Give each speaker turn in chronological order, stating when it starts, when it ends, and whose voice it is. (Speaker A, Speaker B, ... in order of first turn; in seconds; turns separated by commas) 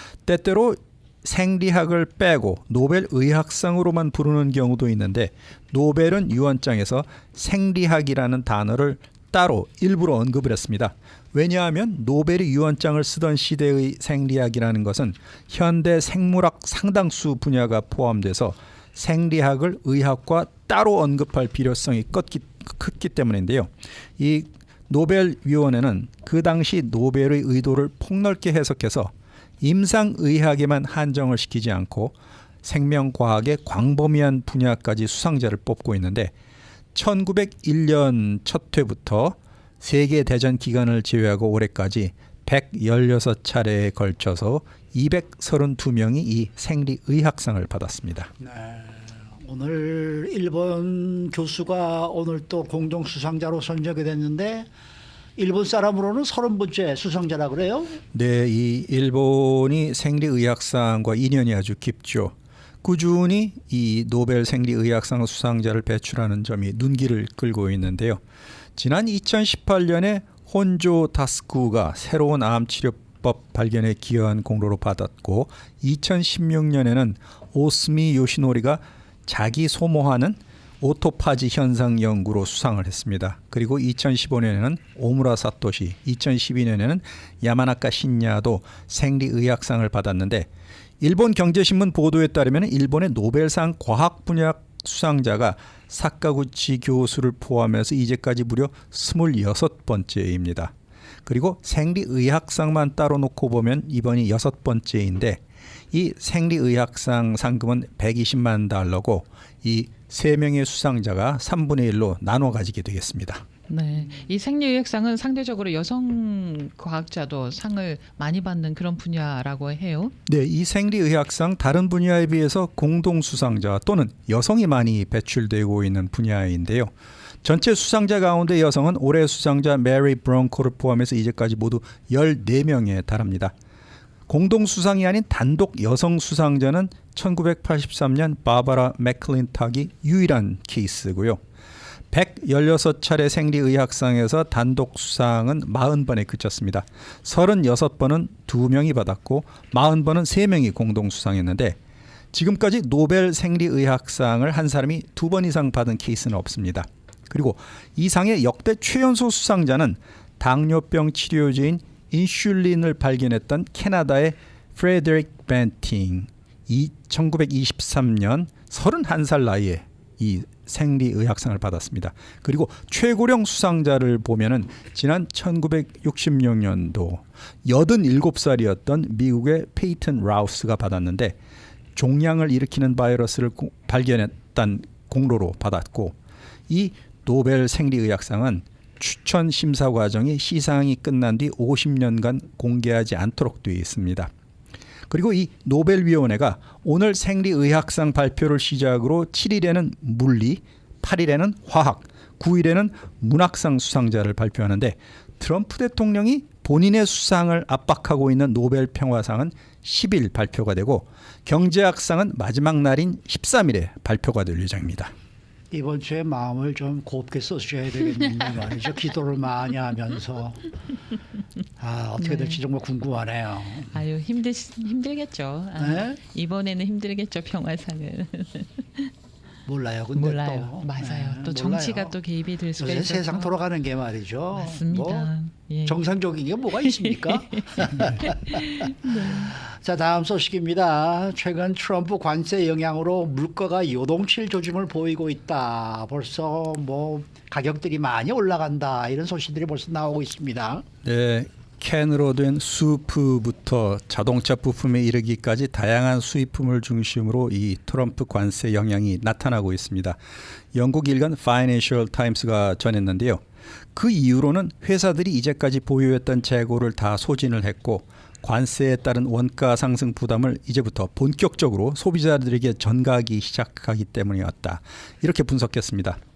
Speaker A: 0.2-36.3, Speaker A: 36.9-48.3, Speaker B: 48.4-54.7, Speaker B: 55.4-58.0, Speaker A: 58.1-68.2, Speaker A: 68.8-90.5, Speaker A: 91.0-100.7, Speaker A: 101.2-105.4, Speaker A: 105.9-113.4, Speaker C: 113.7-120.1, Speaker A: 120.2-126.9, Speaker A: 127.4-133.5, Speaker A: 134.3-141.4, Speaker A: 142.1-151.8, Speaker A: 152.3-181.4, Speaker A: 181.9-186.1, Speaker A: 186.7-194.3, Speaker A: 195.1-215.1, Speaker B: 215.7-220.7, Speaker B: 221.8-223.9, Speaker C: 222.2-222.6, Speaker C: 223.9-229.1, Speaker B: 225.8-226.2, Speaker B: 229.7-232.2, Speaker C: 230.1-233.6, Speaker B: 232.8-235.3, Speaker C: 234.5-236.0, Speaker B: 235.9-250.8, Speaker C: 236.8-239.5, Speaker A: 251.0-260.2, Speaker A: 260.7-263.4, Speaker A: 263.9-276.2